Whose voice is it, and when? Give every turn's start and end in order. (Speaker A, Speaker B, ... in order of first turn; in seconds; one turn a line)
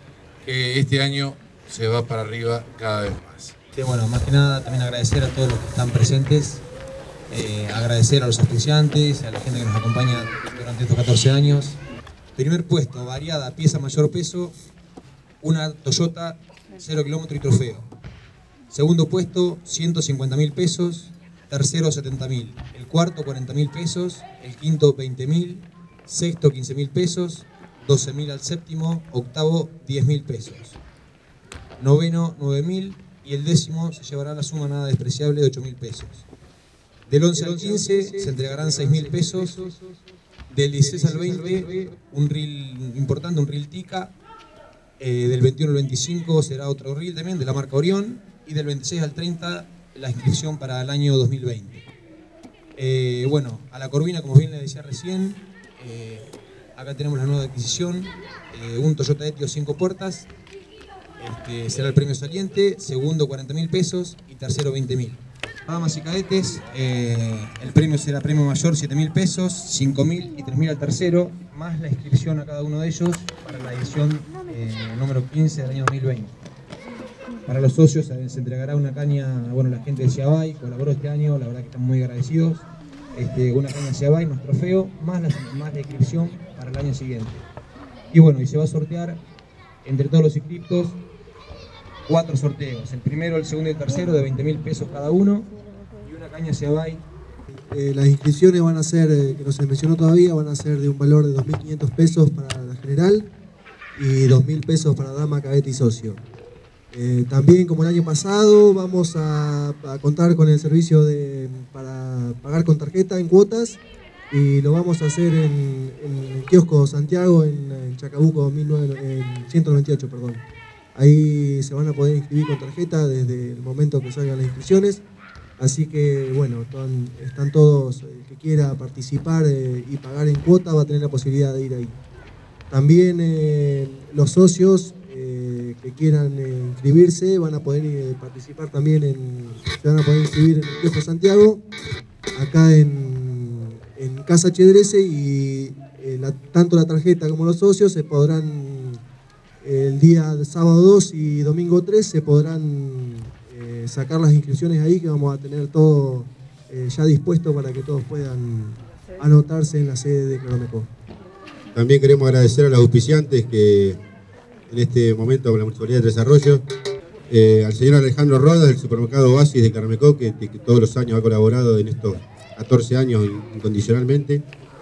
Speaker A: 0.4-3.5
Speaker B: 3.7-6.6
Speaker B: 7.3-11.8
Speaker B: 12.3-14.5
Speaker B: 15.4-17.9
Speaker B: 18.7-30.8
Speaker B: 31.8-36.2
Speaker B: 37.1-39.7
Speaker C: 37.3-40.0
Speaker B: 40.5-44.1
Speaker C: 40.9-41.4
Speaker B: 45.0-51.9
Speaker B: 52.8-60.3
Speaker B: 61.2-76.3
Speaker B: 77.5-87.4
Speaker B: 88.1-89.2
Speaker B: 89.8-91.0
Speaker B: 92.0-95.5
Speaker B: 96.0-97.0
Speaker C: 97.7-103.3
Speaker C: 104.0-106.2
Speaker C: 106.9-113.8
Speaker C: 114.3-120.4
Speaker C: 120.9-125.0
Speaker C: 125.6-131.9
Speaker C: 132.7-141.6
Speaker C: 142.3-149.0
Speaker C: 149.6-160.9
Speaker D: 161.7-164.0
Speaker D: 164.7-166.6
Speaker D: 167.3-174.4